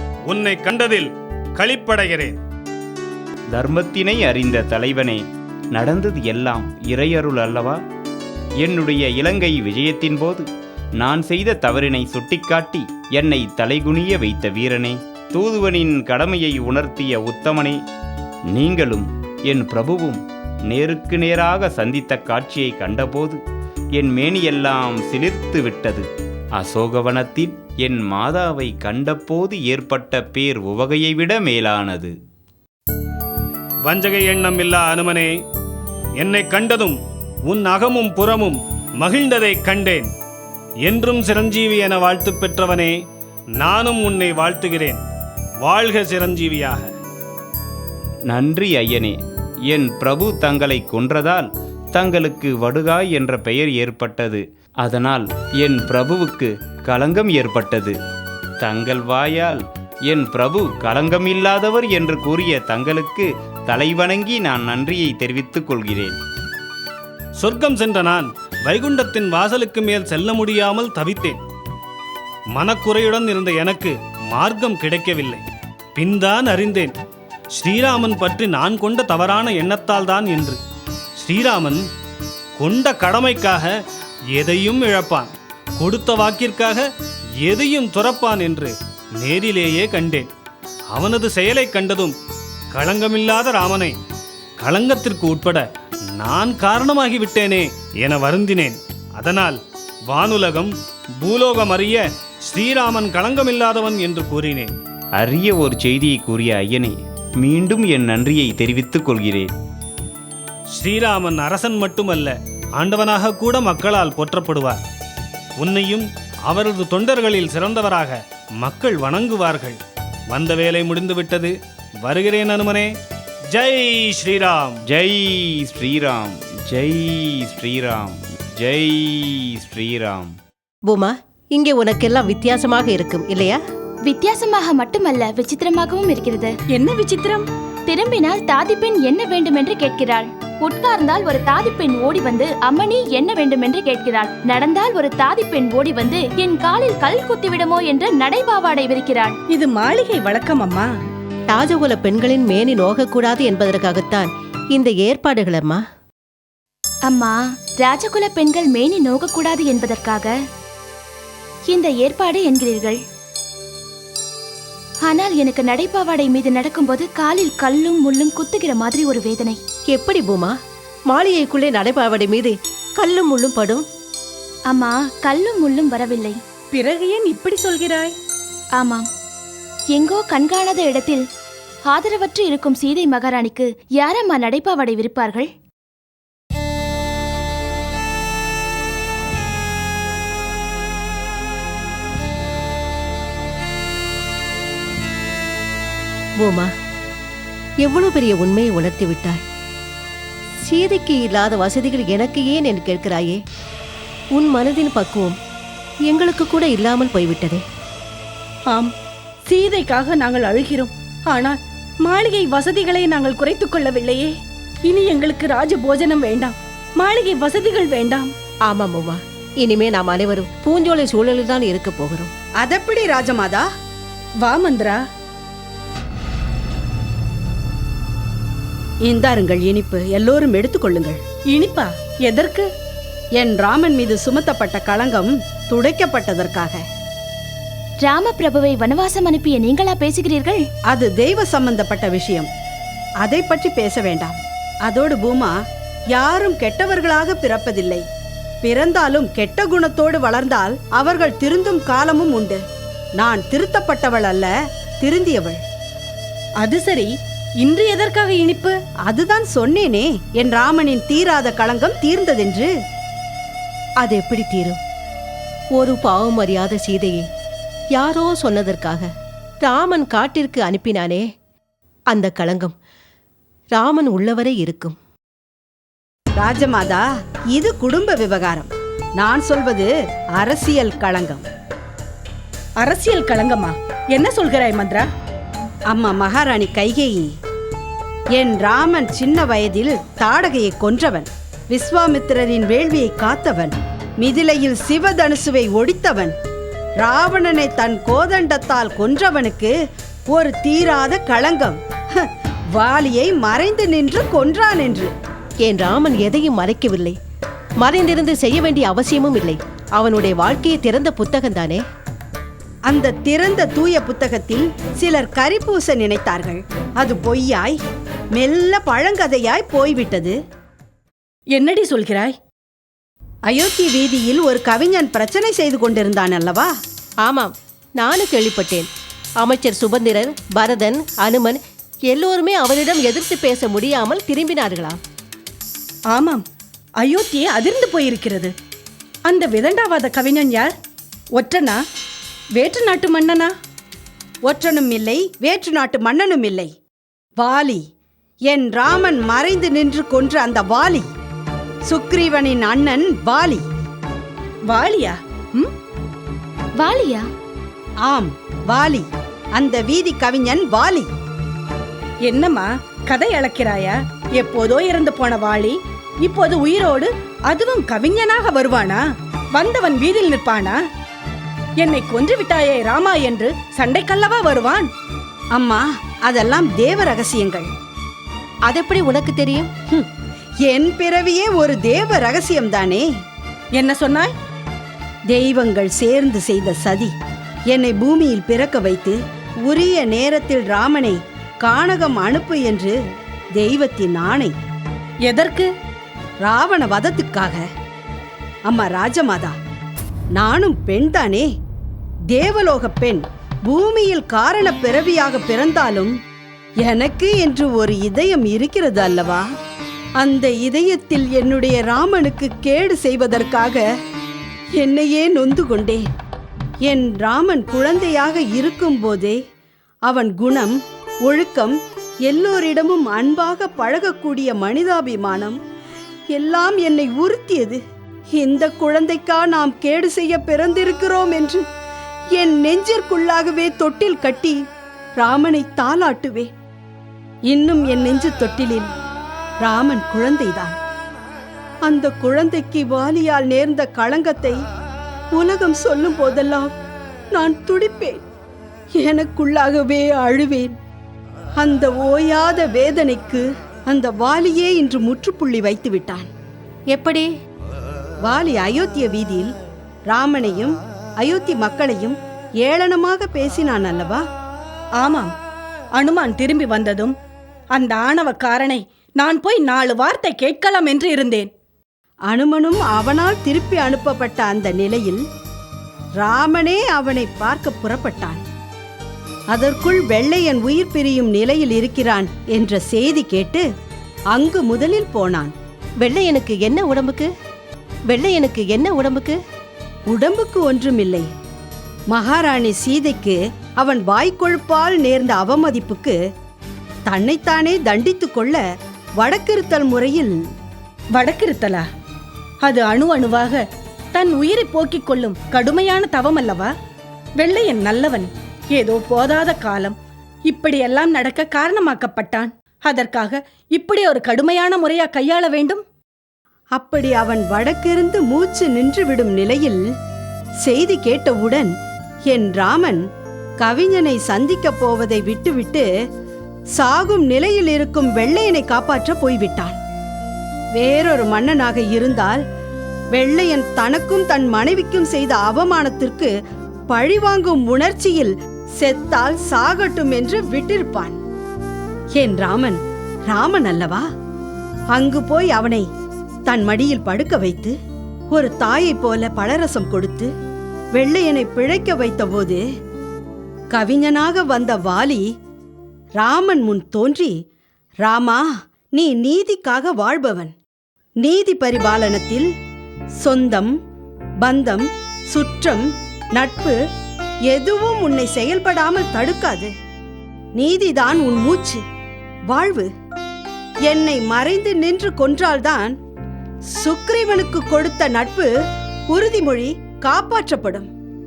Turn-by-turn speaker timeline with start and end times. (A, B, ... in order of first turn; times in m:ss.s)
0:00.3-0:02.4 A
0:03.5-0:05.2 B
0:05.7-0:07.8 B
0:08.6-0:10.4 B
0:11.0-0:17.8 B
0:18.5-0:23.4 B
0:24.0-0:32.1 B
0:33.8-0:35.3 A
0:36.2-0:40.1 A
0:40.9-0:43.0 A
0:43.6-0:45.0 A
0:45.6-0:46.9 A
0:48.3-0:49.1 B
0:49.7-0:57.9 B
0:58.6-1:06.1 B
1:07.4-1:11.4 A
1:12.6-1:15.4 A
1:16.0-1:16.9 A
1:17.6-1:20.6 A
1:21.2-1:21.8 A
1:22.6-1:23.7 A
1:24.3-1:26.8 A
1:27.4-1:30.3 A
1:30.9-1:32.1 A
1:32.7-1:34.0 A
1:34.6-1:35.6 A
1:36.2-1:39.6 A
1:40.1-1:44.7 A
1:45.2-1:49.5 B
1:50.8-1:54.8 A
1:55.6-1:59.8 A
2:00.3-2:02.9 A
2:03.5-2:04.8 A
2:04.9-2:10.3 B
2:10.9-2:13.6 C
2:14.1-2:16.5 D
2:16.7-2:17.5 E
2:17.9-2:29.3 D
2:29.5-2:30.9 E
2:31.5-2:35.8 C
2:37.1-2:40.3 D
2:41.7-2:43.0 D
2:45.0-2:49.6 D
2:49.9-2:50.5 C
2:51.1-2:53.8 C
2:54.7-2:56.4 D
2:56.7-2:58.1 E
2:58.8-2:59.1 D
2:59.9-3:01.2 D
3:01.8-3:05.5 D
3:16.4-3:16.7 C
3:17.8-3:19.4 C
3:20.6-3:23.4 C
3:24.3-3:25.4 C
3:26.0-3:27.6 C
3:29.4-3:34.3 E
3:34.9-3:38.3 E
3:38.7-3:42.3 C
3:42.6-3:43.6 F
3:44.4-3:45.0 E
3:49.0-3:51.2 F
3:51.5-3:52.7 E
3:53.4-3:56.8 F
3:58.0-4:00.6 D
4:00.9-4:02.5 F
4:03.2-4:04.4 F
4:04.9-4:05.5 F
4:06.1-4:08.0 F
4:08.6-4:12.6 F
4:13.2-4:15.6 F
4:16.6-4:17.1 E
4:17.6-4:18.8 E
4:19.1-4:22.7 F
4:24.0-4:24.8 C
4:25.8-4:27.2 C
4:27.9-4:29.1 C
4:29.6-4:31.2 C
4:32.1-4:32.7 C
4:33.7-4:35.0 C
4:36.3-4:41.4 F
4:42.8-4:45.1 E
4:45.9-4:47.2 F
4:48.4-4:56.3 F
4:57.0-4:59.7 F
5:00.3-5:02.2 F
5:02.8-5:05.1 F
5:05.6-5:07.2 C
5:07.8-5:11.8 C
5:12.9-5:17.7 F
5:18.4-5:20.4 F
5:21.5-5:22.3 E
5:23.5-5:26.7 F
5:27.2-5:28.9 C
5:29.4-5:35.0 C
5:36.1-5:36.4 E
5:37.0-5:38.5 E
5:39.3-5:40.7 E
5:41.4-5:41.8 E
5:42.6-5:43.5 E
5:44.4-5:46.7 F
5:47.4-5:47.8 F
5:48.5-5:51.1 F
5:51.9-5:53.6 F
5:54.7-5:55.7 E
5:56.8-5:57.2 D
5:58.0-6:01.1 F
6:02.3-6:09.0 E
6:09.6-6:10.8 E
6:11.8-6:14.9 E
6:15.5-6:17.7 F
6:18.7-6:19.7 C
6:20.6-6:23.0 F
6:23.8-6:24.3 E
6:25.3-6:27.1 F
6:27.7-6:29.2 F
6:29.7-6:32.9 F
6:33.6-6:34.5 F
6:35.3-6:35.7 E
6:36.4-6:37.6 F
6:38.7-6:39.6 F
6:40.4-6:41.5 F
6:42.3-6:46.1 F
6:46.8-6:49.4 F
6:50.2-6:53.8 F
6:54.8-6:56.0 F
6:56.9-6:59.4 F
7:00.1-7:05.6 F
7:06.3-7:07.8 F
7:08.4-7:11.6 F
7:12.4-7:14.6 F
7:15.2-7:16.5 F
7:17.5-7:18.9 F
7:19.6-7:20.8 F
7:21.9-7:24.6 F
7:25.3-7:26.7 F
7:27.3-7:28.2 F
7:29.0-7:30.7 F
7:31.6-7:36.3 F
7:36.9-7:37.3 C
7:38.2-7:39.5 F
7:40.1-7:44.2 F
7:45.0-7:45.3 E
7:46.0-7:47.2 E
7:47.7-7:51.5 E
7:52.3-7:55.2 F
7:56.2-7:58.4 F
7:59.5-8:03.6 F
8:04.3-8:05.5 F
8:06.0-8:07.3 C
8:08.1-8:09.4 C
8:10.1-8:11.2 F
8:12.1-8:16.2 F
8:17.1-8:18.6 F
8:19.2-8:20.3 F
8:21.2-8:21.8 E
8:22.6-8:23.6 E
8:24.1-8:26.7 E
8:27.4-8:30.0 E
8:30.5-8:35.8 E
8:36.8-8:39.8 F
8:40.6-8:41.7 F
8:42.3-8:43.0 F
8:43.6-8:45.8 F
8:46.8-8:49.8 F
8:50.8-8:52.4 F
8:53.1-8:56.3 F
8:56.9-9:01.2 F
9:02.2-9:02.8 F
9:03.3-9:04.0 F
9:04.9-9:05.8 F
9:06.5-9:07.7 F
9:08.3-9:10.3 F
9:11.0-9:12.6 F
9:13.7-9:15.2 F
9:16.2-9:17.3 F
9:18.0-9:18.4 F
9:19.0-9:20.5 F
9:21.2-9:22.4 F
9:23.2-9:23.7 F
9:24.4-9:25.8 F
9:26.4-9:26.7 F
9:27.5-9:29.7 F
9:30.6-9:31.8 F
9:32.5-9:32.9 F
9:33.8-9:35.9 F
9:36.7-9:38.5 F
9:39.1-9:40.9 F